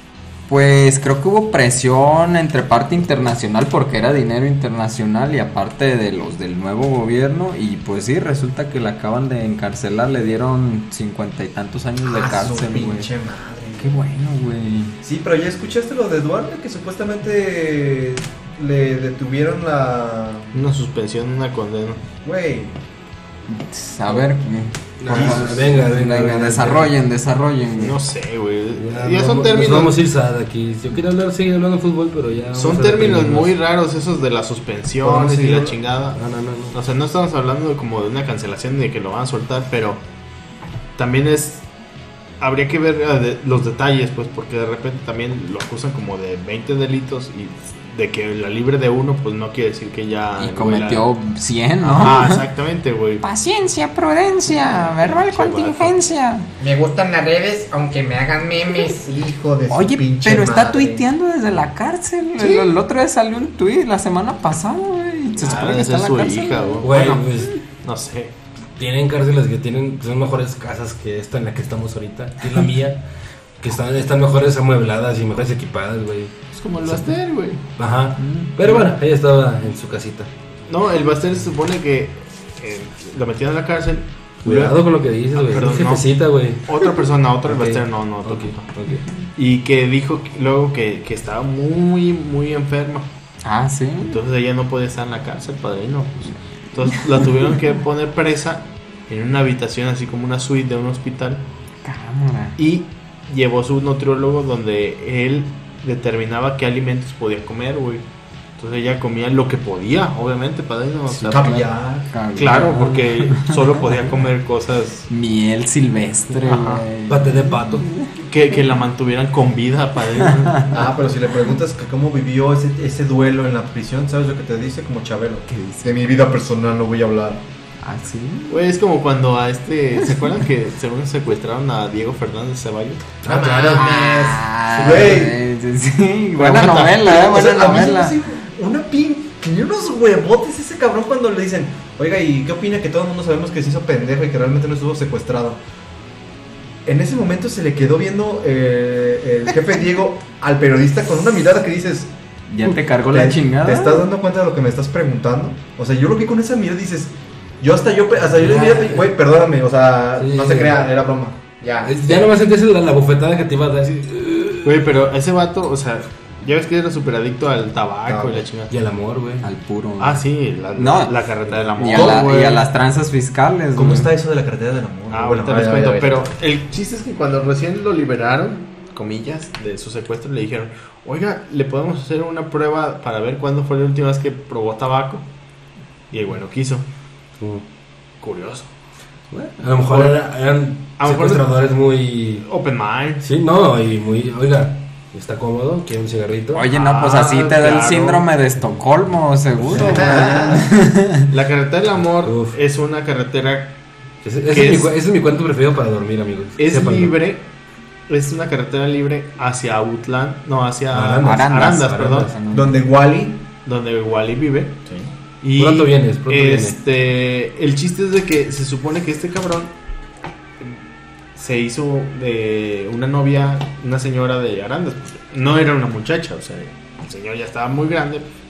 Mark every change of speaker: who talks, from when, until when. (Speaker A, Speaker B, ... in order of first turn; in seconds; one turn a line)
Speaker A: 0.5-13.1
Speaker B: 12.0-13.9
Speaker A: 13.8-14.9
Speaker B: 15.0-20.6
Speaker C: 20.5-22.0
Speaker B: 22.2-22.8
Speaker A: 23.5-28.0
Speaker D: 25.0-26.9
Speaker B: 25.1-25.6
Speaker C: 27.8-29.9
Speaker D: 28.8-33.5
Speaker C: 32.5-36.2
Speaker B: 35.0-35.8
Speaker D: 36.1-36.8
Speaker C: 36.7-40.0
Speaker C: 41.0-41.6
Speaker C: 42.4-51.1
Speaker A: 50.4-52.5
Speaker C: 51.8-53.2
Speaker A: 53.2-56.5
Speaker C: 54.5-56.0
Speaker E: 56.6-59.2
Speaker B: 59.0-61.0
Speaker A: 59.7-66.8
Speaker C: 62.4-62.7
Speaker C: 65.4-68.3
Speaker D: 66.8-67.5
Speaker D: 68.8-73.0
Speaker D: 73.6-76.3
Speaker C: 76.5-77.6
Speaker D: 77.8-80.3
Speaker A: 78.2-78.5
Speaker C: 78.6-78.9
Speaker C: 80.7-86.1
Speaker D: 84.4-86.6
Speaker C: 86.6-88.7
Speaker D: 87.5-89.0
Speaker C: 89.3-93.1
Speaker A: 93.4-94.2
Speaker C: 94.0-101.4
Speaker A: 101.8-102.6
Speaker C: 102.6-108.0
Speaker C: 108.6-111.7
Speaker A: 111.1-113.8
Speaker B: 111.3-112.1
Speaker C: 112.3-115.1
Speaker A: 115.1-118.1
Speaker C: 116.4-116.8
Speaker D: 117.1-117.9
Speaker C: 118.2-120.9
Speaker B: 120.7-127.4
Speaker A: 125.5-126.1
Speaker A: 127.8-128.6
Speaker C: 128.5-133.6
Speaker D: 133.2-133.8
Speaker B: 133.3-135.4
Speaker E: 133.5-134.3
Speaker A: 133.8-138.2
Speaker C: 136.4-137.8
Speaker B: 137.0-145.6
Speaker B: 146.8-152.1
Speaker A: 152.5-154.1
Speaker B: 153.1-161.5
Speaker D: 158.3-159.2
Speaker D: 160.2-160.9
Speaker E: 161.6-161.9
Speaker D: 161.8-164.8
Speaker C: 164.6-168.7
Speaker B: 168.1-168.4
Speaker D: 168.7-169.5
Speaker A: 169.4-171.2
Speaker C: 170.0-172.7
Speaker A: 171.8-174.1
Speaker B: 171.9-172.2
Speaker B: 173.8-176.3
Speaker C: 175.1-185.3
Speaker C: 186.1-186.8
Speaker D: 187.4-187.6
Speaker C: 188.2-188.7
Speaker D: 189.3-192.4
Speaker C: 189.8-190.2
Speaker C: 191.0-191.5
Speaker C: 192.4-193.2
Speaker D: 193.2-196.6
Speaker A: 196.5-201.3
Speaker C: 196.7-198.3
Speaker D: 199.7-200.3
Speaker C: 199.7-200.6
Speaker C: 201.3-203.8
Speaker D: 202.2-202.6
Speaker D: 204.2-207.2
Speaker C: 204.5-204.9
Speaker C: 206.6-207.5
Speaker C: 208.1-212.3
Speaker D: 210.9-212.3
Speaker A: 211.2-212.8
Speaker B: 212.5-213.4
Speaker C: 213.6-214.8
Speaker C: 215.4-219.7
Speaker D: 215.6-216.8
Speaker C: 221.3-228.2